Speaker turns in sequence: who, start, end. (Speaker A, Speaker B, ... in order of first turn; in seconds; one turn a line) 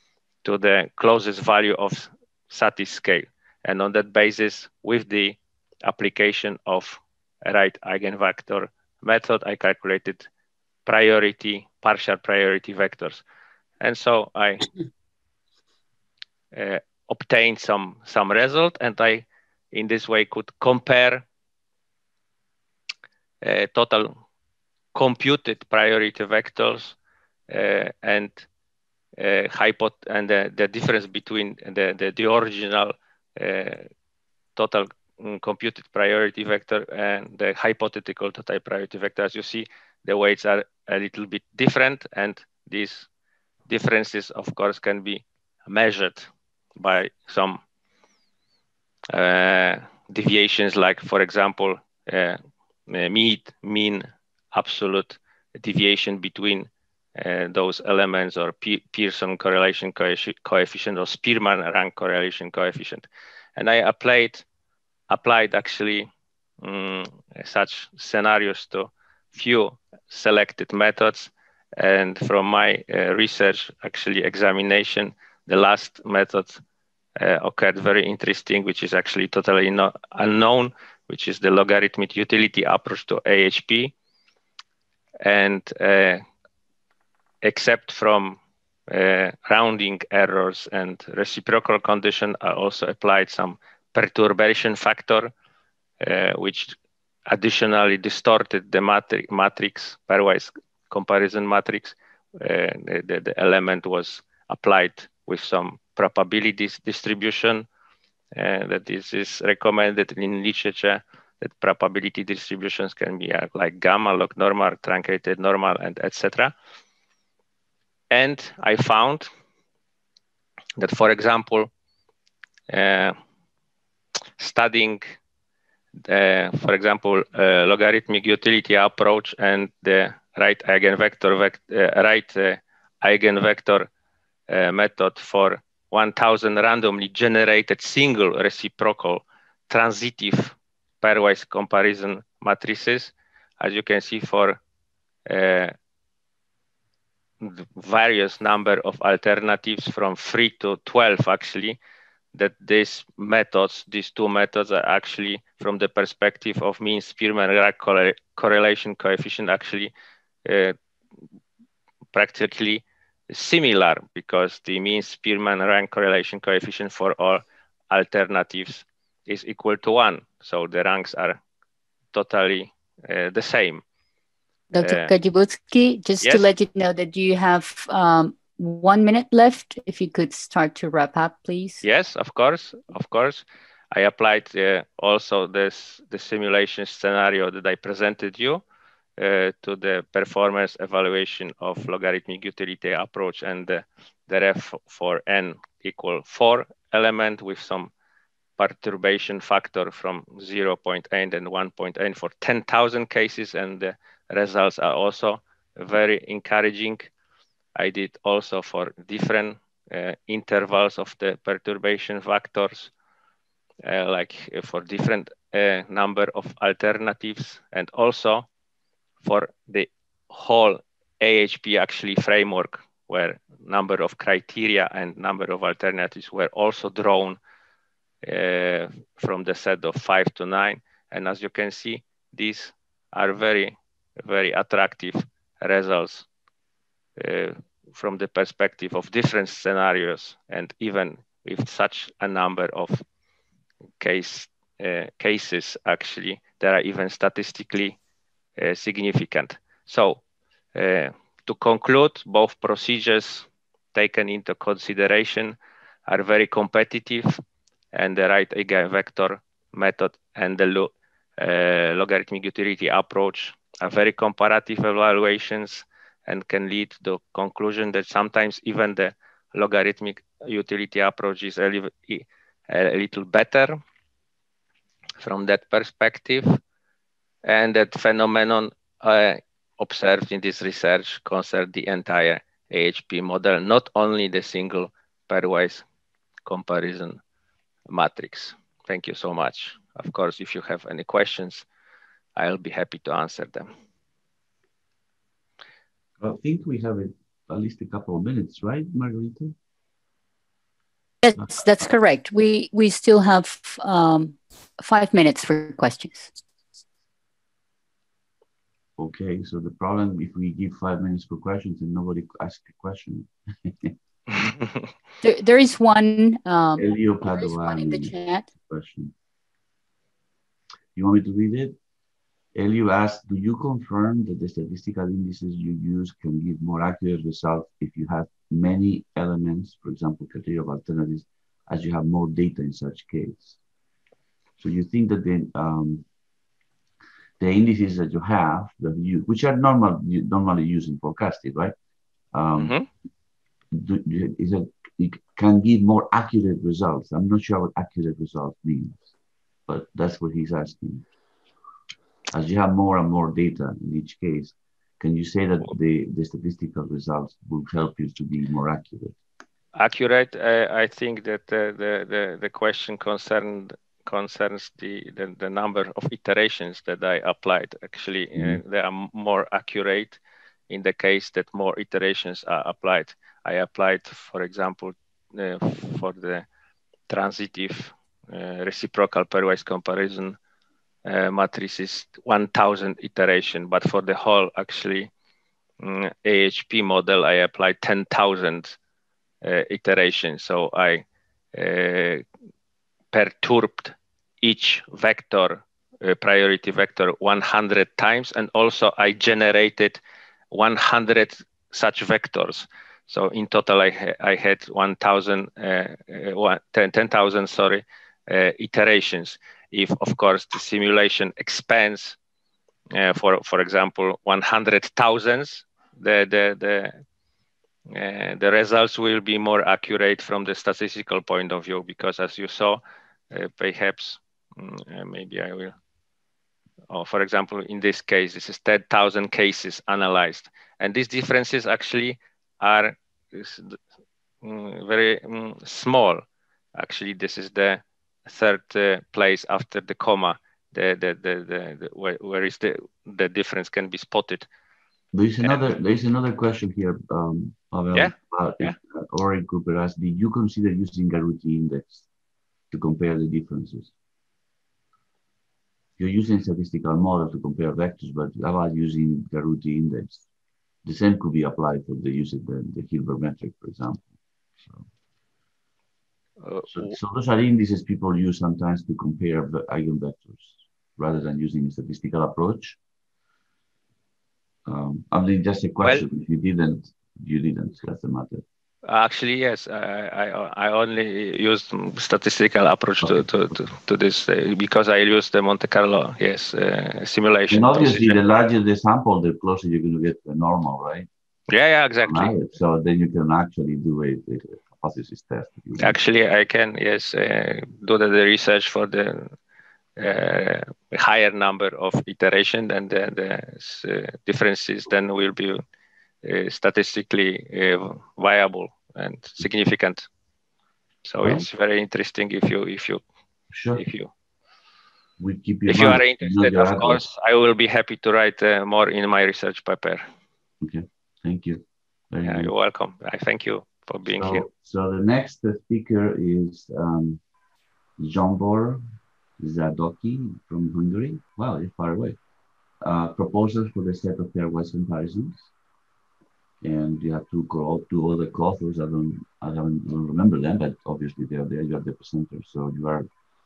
Speaker A: 0.4-10.3
Speaker A: 10.9-13.2
Speaker A: 13.8-14.7
Speaker A: 16.5-21.3
Speaker A: 23.4-24.1
Speaker A: 24.9-27.0
Speaker A: 27.5-28.5
Speaker A: 29.2-33.9
Speaker A: 34.6-43.1
Speaker A: 43.7-47.6
Speaker A: 49.1-64.5
Speaker A: 65.1-66.1
Speaker A: 66.6-76.6
Speaker A: 77.2-83.9
Speaker A: 85.2-86.2
Speaker A: 87.4-95.3
Speaker A: 96.0-107.7
Speaker A: 108.3-116.5
Speaker A: 118.1-119.3
Speaker A: 120.8-121.7
Speaker A: 122.7-123.2
Speaker A: 124.4-125.2
Speaker A: 126.0-133.9
Speaker A: 134.5-144.6
Speaker A: 145.3-145.7
Speaker A: 147.4-151.8
Speaker A: 152.3-159.9
Speaker A: 160.4-160.8
Speaker A: 162.1-171.4
Speaker A: 172.1-173.8
Speaker B: 174.7-181.8
Speaker A: 174.8-175.1
Speaker A: 176.2-176.5
Speaker A: 181.8-188.6
Speaker A: 189.2-197.9
Speaker A: 198.6-207.1
Speaker A: 207.8-212.9
Speaker A: 213.8-218.5
Speaker A: 219.2-227.4
Speaker A: 228.2-236.3
Speaker A: 237.2-243.0
Speaker A: 244.0-248.0
Speaker A: 248.6-250.2
Speaker A: 250.8-257.4
Speaker A: 257.9-273.8
Speaker A: 275.2-276.6
Speaker A: 277.4-285.9
Speaker A: 286.5-287.2
Speaker A: 287.9-291.7
Speaker A: 292.4-293.7
Speaker C: 296.2-299.6
Speaker B: 301.2-306.3
Speaker C: 309.0-313.9
Speaker B: 315.2-318.5
Speaker C: 316.8-319.1
Speaker C: 321.0-321.8
Speaker C: 322.6-333.6
Speaker C: 334.6-336.1
Speaker C: 337.4-341.7
Speaker C: 342.3-342.8
Speaker A: 342.6-342.9
Speaker C: 343.7-349.1
Speaker C: 349.7-351.1
Speaker C: 352.3-359.1
Speaker A: 359.7-376.5
Speaker C: 368.4-368.6
Speaker A: 377.1-380.4
Speaker A: 381.1-385.1
Speaker A: 385.8-388.8
Speaker A: 389.4-392.2
Speaker A: 393.1-400.0
Speaker A: 400.5-412.2
Speaker A: 412.9-416.9
Speaker A: 417.9-425.8
Speaker A: 426.9-433.8
Speaker A: 434.4-436.2
Speaker A: 436.8-444.5
Speaker C: 445.1-452.1
Speaker A: 445.4-445.7
Speaker A: 447.9-448.8
Speaker C: 452.7-453.9
Speaker C: 456.0-460.3
Speaker C: 460.9-464.9
Speaker A: 466.4-467.0
Speaker C: 466.7-472.8
Speaker C: 474.7-478.4
Speaker A: 478.9-488.2
Speaker C: 487.5-491.1
Speaker A: 491.5-492.4
Speaker C: 492.0-496.0
Speaker A: 495.8-499.4
Speaker A: 500.0-505.6
Speaker A: 506.2-510.1
Speaker A: 511.1-513.0
Speaker C: 511.2-511.5
Speaker C: 513.5-513.8
Speaker A: 513.7-514.1
Speaker C: 515.2-517.0
Speaker A: 515.7-520.0
Speaker C: 520.6-522.5
Speaker A: 522.2-524.5
Speaker C: 524.0-527.2
Speaker C: 528.0-528.8
Speaker C: 529.4-532.2
Speaker C: 532.8-535.5
Speaker C: 536.6-543.1